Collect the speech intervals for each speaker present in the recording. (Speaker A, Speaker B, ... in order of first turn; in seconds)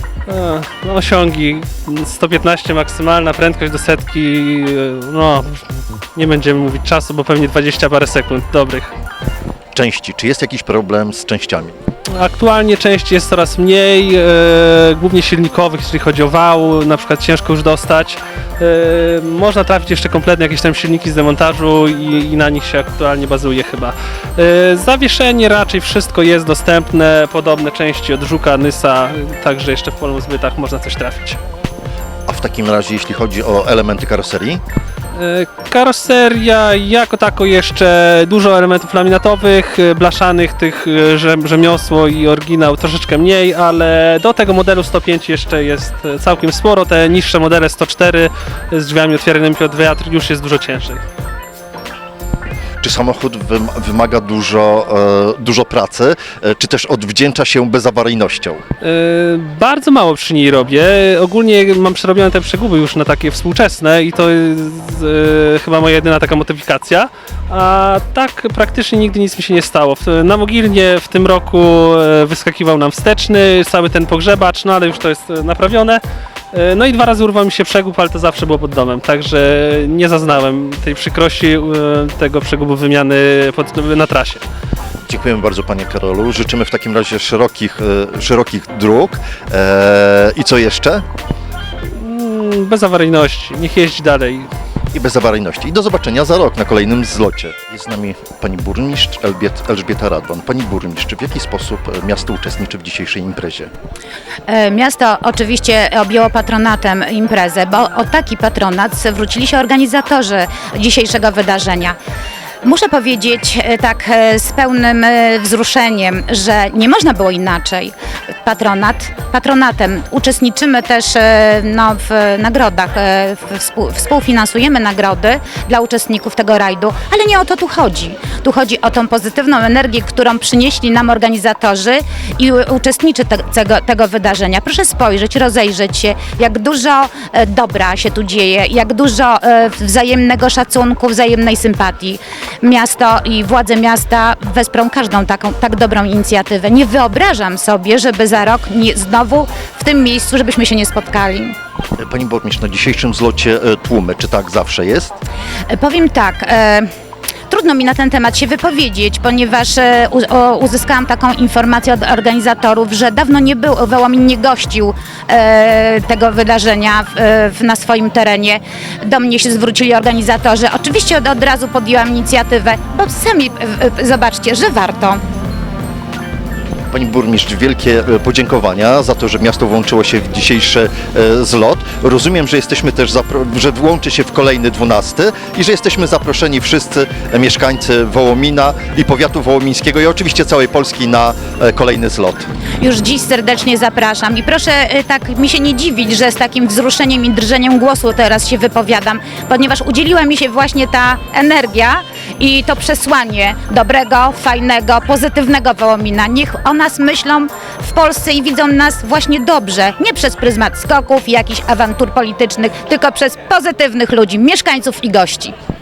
Speaker A: 0.3-8.9, 12.2-31.4, 35.1-51.0, 58.8-84.4, 91.9-94.5
Speaker B: 9.8-11.8, 32.3-34.6, 52.8-58.6, 85.1-91.0, 94.9-103.7, 152.0-155.1, 176.9-192.5
Speaker C: 104.5-112.0, 112.6-151.6, 155.7-156.9, 157.5-175.2, 192.8-215.5